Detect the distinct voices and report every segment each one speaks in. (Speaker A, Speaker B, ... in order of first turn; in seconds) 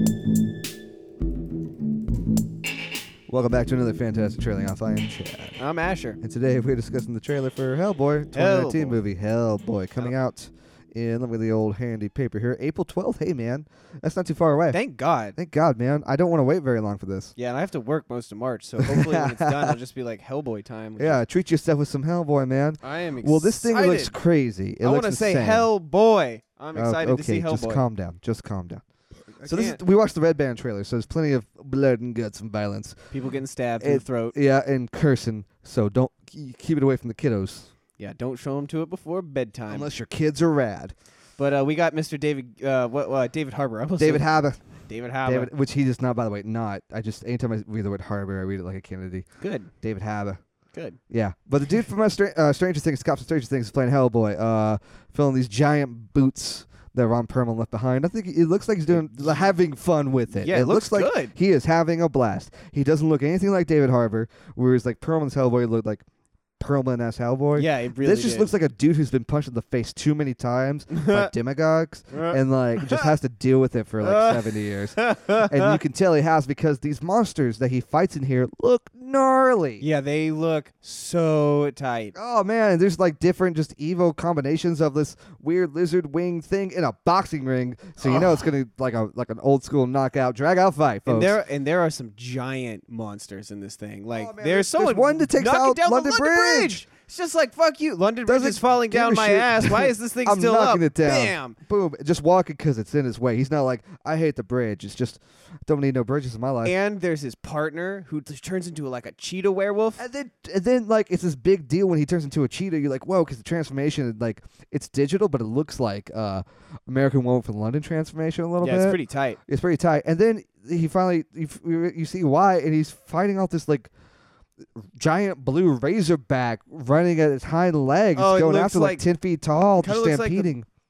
Speaker A: 3.3-5.6, 6.2-14.8, 15.3-17.3, 18.8-19.7, 21.0-25.7, 26.7-28.8, 29.4-33.1, 33.8-37.7, 39.7-40.9, 44.0-44.6, 45.2-49.2, 49.8-50.4, 51.1-66.0, 66.6-79.8, 82.1-91.4, 94.1-96.8, 98.2-106.8, 110.0-123.9, 124.8-130.7
Speaker B: 5.6-6.2, 8.3-9.0, 14.7-15.4, 17.4-21.2, 22.8-24.1, 24.8-27.8, 29.4-29.8, 33.1-34.4, 38.0-39.9, 41.4-44.3, 44.9-45.5, 49.4-49.7, 50.7-51.0, 58.9-59.5, 60.3-61.3, 67.5-68.5, 70.9-71.3, 72.1-73.1, 74.0-75.8, 79.8-82.1, 88.0-88.4, 91.0-101.6, 106.6-110.0, 118.6-119.4, 128.1-129.0, 129.8-130.5